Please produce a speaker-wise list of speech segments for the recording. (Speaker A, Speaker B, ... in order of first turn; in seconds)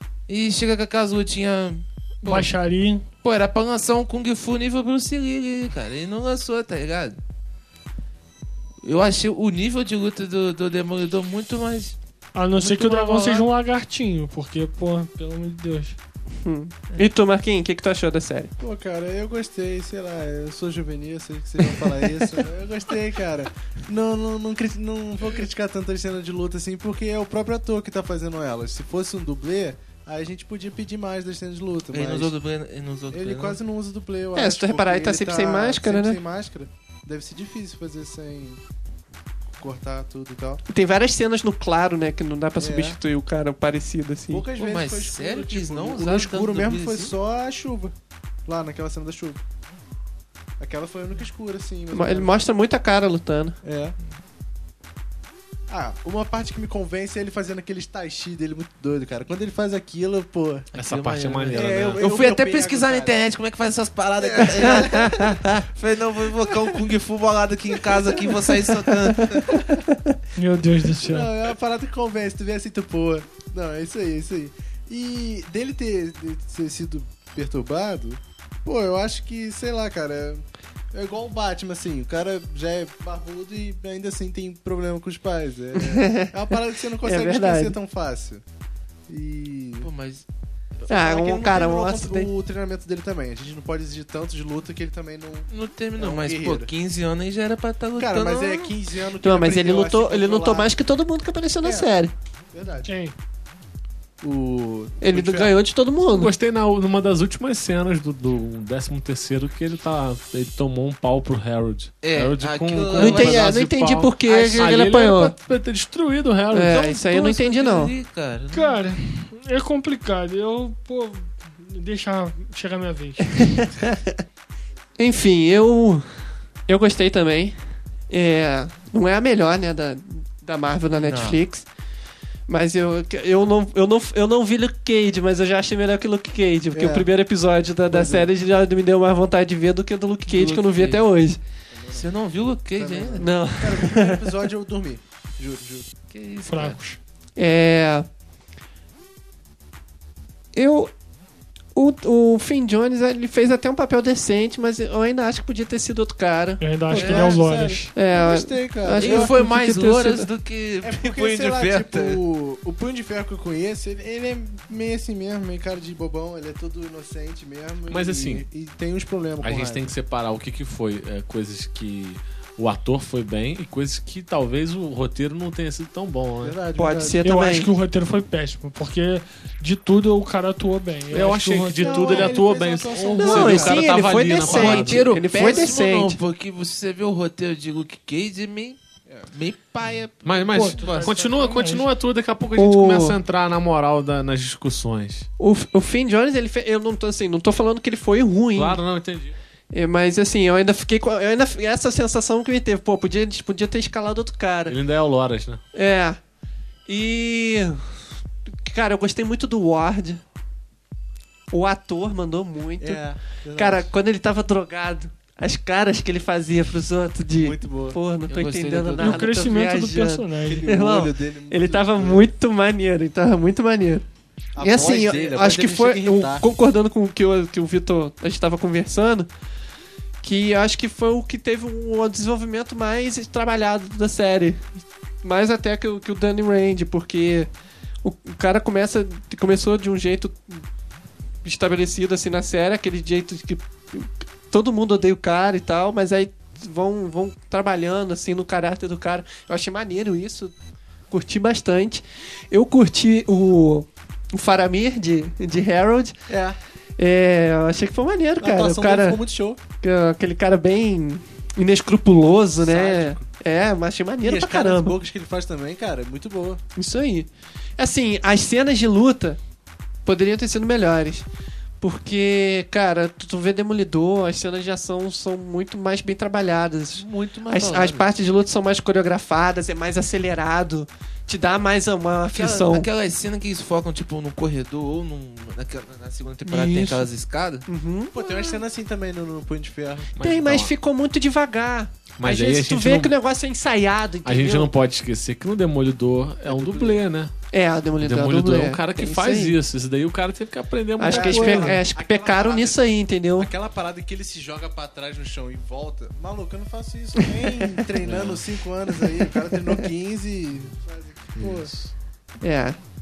Speaker A: 0.3-2.5, 3.2-7.2, 8.8-12.0, 31.9-33.6, 44.5-47.1, 60.7-69.7, 89.8-90.2, 95.5-98.7, 112.0-113.7, 114.2-114.8, 116.9-118.8, 131.0-131.4, 140.3-141.0, 141.9-143.3, 146.1-146.8, 156.9-157.4, 159.0-162.2, 183.0-188.8, 189.3-191.4, 218.3-219.4, 277.0-278.1, 282.3-287.6
Speaker B: 2.2-3.0, 12.3-16.0, 70.3-71.3, 102.8-103.1, 118.5-123.3, 146.4-147.0, 156.6-157.9, 177.2-182.4, 191.4-191.8, 219.0-220.6
Speaker C: 12.6-13.5, 18.6-32.3, 33.1-38.6, 39.6-40.6, 42.6-43.0, 44.3-47.9, 48.5-49.4, 50.6-52.4, 53.6-53.9, 55.7-60.7, 61.5-63.2, 64.2-65.4, 67.8-68.7, 69.2-69.7, 71.0-88.4, 89.1-89.9, 90.9-96.7, 98.0-100.7, 101.6-101.9, 102.5-102.9, 104.2-105.5, 136.7-137.1, 137.9-138.3, 141.7-142.2, 142.7-145.9, 156.9-159.3, 160.8-169.9, 176.4-177.2, 181.8-184.3, 185.3-185.7, 189.1-189.3, 190.8-191.6, 212.8-213.9, 217.4-218.0, 220.4-222.3, 224.6-226.4, 256.3-256.6, 258.4-259.6, 262.6-263.3, 264.2-266.6, 288.1-290.1, 296.4-297.0, 301.1-311.7
Speaker D: 16.4-18.5, 21.8-22.1, 34.3-36.2, 40.7-44.5, 51.9-53.6, 85.7-86.3, 87.0-87.8, 90.9-92.3, 99.2-102.1, 105.0-106.3, 112.9-115.3, 116.5-117.9, 123.4-124.0, 125.0-126.1, 126.7-127.6, 128.1-131.7, 132.5-141.4, 143.2-144.3, 147.3-148.1, 150.5-150.9, 151.7-156.6, 157.9-160.3, 176.8-177.7, 183.2-186.2, 192.5-193.2, 195.4-198.8, 199.7-204.8, 205.7-206.2, 206.9-207.9, 208.6-210.2, 211.5-213.0, 213.5-224.0, 224.6-229.3, 230.2-234.6, 235.2-237.5, 238.0-240.6, 241.4-250.5, 251.1-256.2, 257.0-259.2, 259.8-265.0, 266.8-269.4, 270.1-271.2, 271.8-282.9, 286.4-287.1, 287.7-288.6, 290.2-294.7, 297.5-299.6, 301.0-303.5, 307.2-307.8, 309.0-309.8, 312.4-312.8
Speaker E: 60.7-62.0, 106.1-117.0, 167.9-168.4, 169.4-176.6, 181.1-185.3, 190.2-195.3, 198.5-199.3, 204.7-205.6, 290.1-290.7, 292.2-293.1, 294.2-297.3, 298.0-301.8, 308.0-308.4, 311.4-311.9